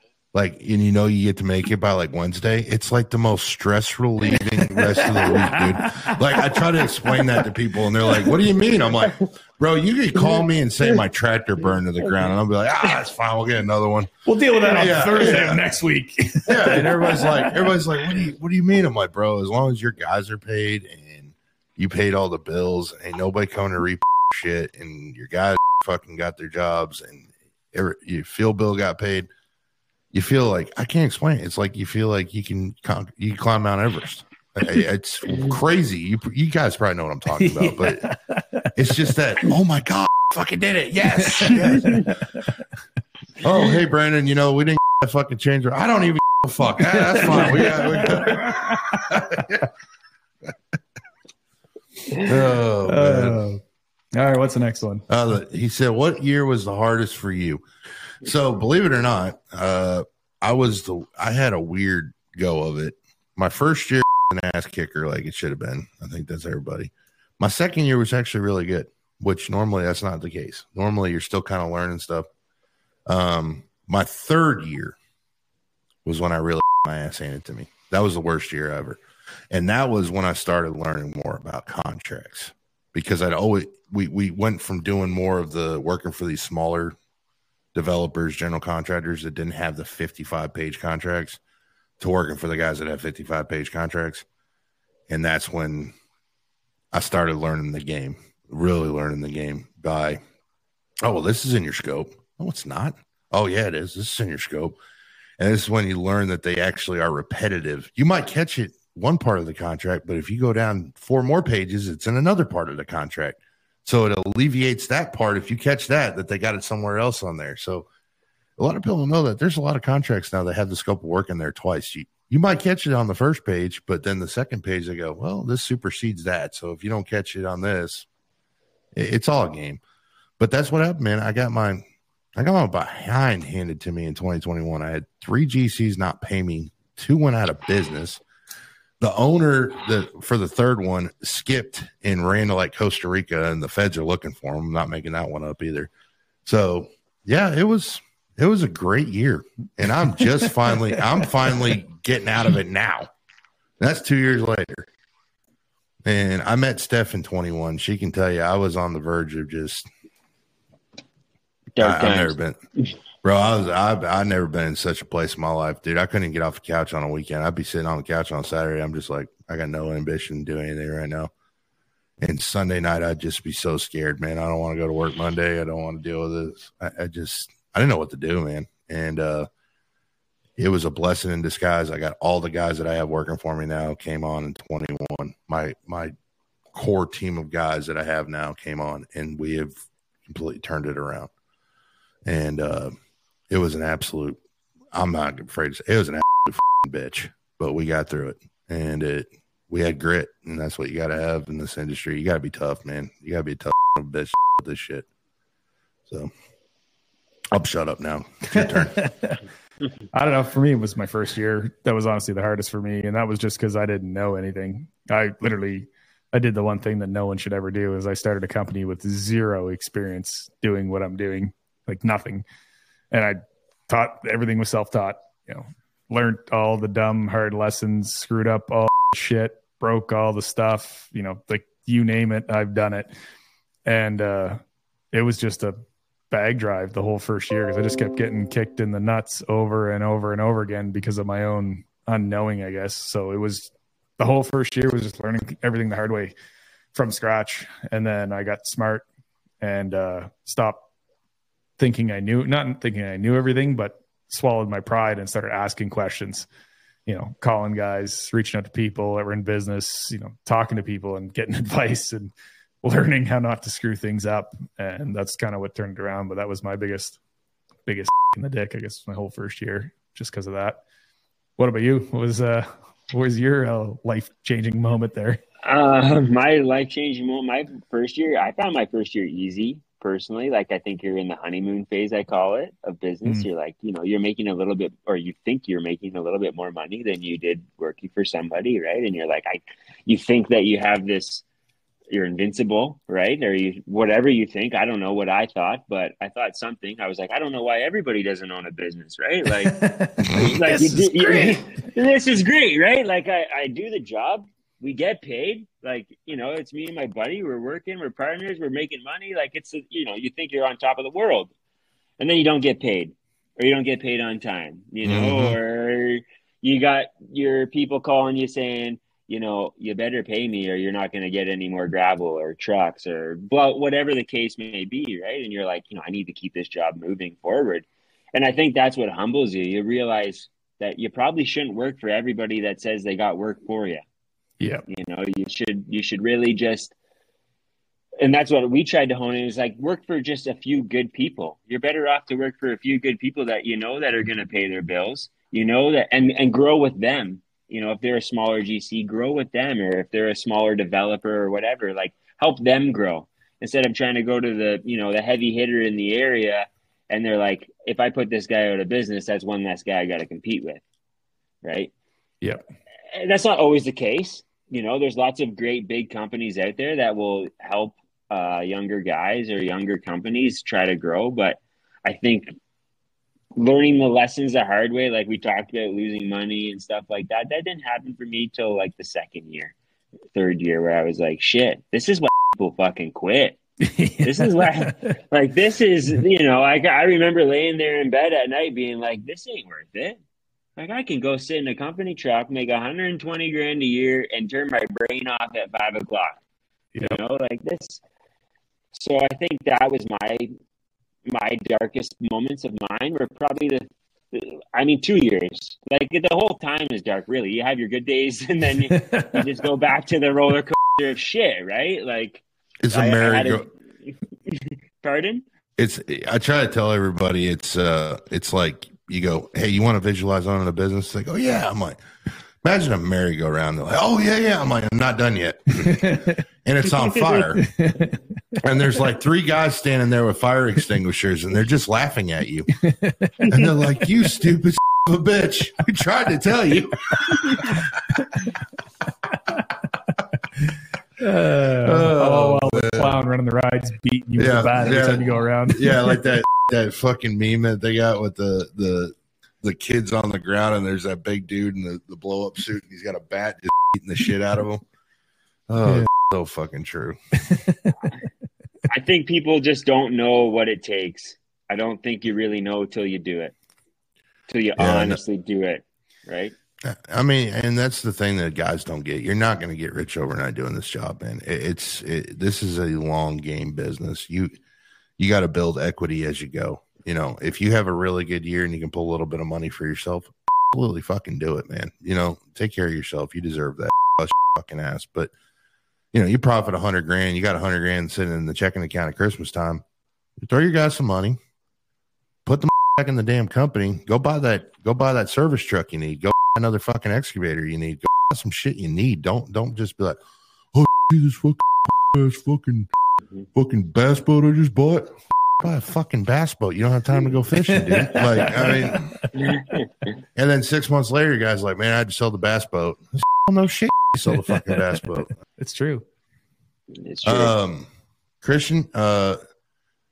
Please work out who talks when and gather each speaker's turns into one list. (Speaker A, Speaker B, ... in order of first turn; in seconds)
Speaker A: 0.3-14.1, 14.6-15.6, 16.5-29.3, 30.1-38.0, 38.8-42.2, 43.4-49.7, 52.2-53.4, 55.1-57.6, 58.2-72.3, 73.1-75.0, 76.0-87.0, 87.7-91.4, 92.0-94.3, 95.1-95.9, 96.9-100.2, 101.0-104.8, 105.4-117.9, 118.6-128.1, 128.9-129.8, 130.4-131.8, 132.4-138.2, 139.0-145.9, 146.4-153.1, 153.8-154.9, 156.1-159.9, 161.8-162.6, 163.2-171.3, 172.2-179.5, 180.6-186.1, 186.7-191.3, 192.3-192.9, 193.5-194.4, 194.9-205.1, 207.5-209.1, 315.0-315.6, 412.8-413.7, 415.8-422.0, 422.6-427.7, 428.6-432.7, 433.5-437.8, 441.8-443.2, 444.4-454.8, 455.7-457.2, 464.8-465.2, 466.8-474.5, 475.2-485.3, 486.1-489.8, 490.4-491.4, 492.5-500.2, 500.7-502.9, 503.6-509.4, 510.4-515.3, 517.2-517.9, 518.4-519.4
Speaker B: 4.8-6.7, 14.3-17.6, 37.4-38.7, 41.2-42.1, 46.9-49.5, 52.9-53.6, 54.1-55.1, 208.5-209.4, 210.1-222.5, 223.1-233.1, 233.9-234.6, 235.1-246.3, 246.9-249.1, 249.6-250.8, 251.8-256.5, 257.1-267.2, 267.9-270.8, 271.6-275.4, 299.5-301.7, 334.6-334.9, 383.8-385.0, 408.9-409.4, 425.8-426.4, 427.6-428.2, 432.8-433.6, 441.2-446.2, 457.5-457.8, 507.7-509.3, 515.5-516.1
Speaker C: 161.8-162.4, 275.6-291.4, 292.1-311.5, 312.2-334.0, 334.9-336.9, 338.2-360.8, 361.6-361.9, 363.1-372.6, 373.6-379.8, 380.3-383.6, 384.2-390.2, 390.8-396.4, 397.0-398.0, 398.9-400.5, 401.3-415.4, 458.9-463.5, 464.5-466.6, 509.4-509.8, 516.9-517.5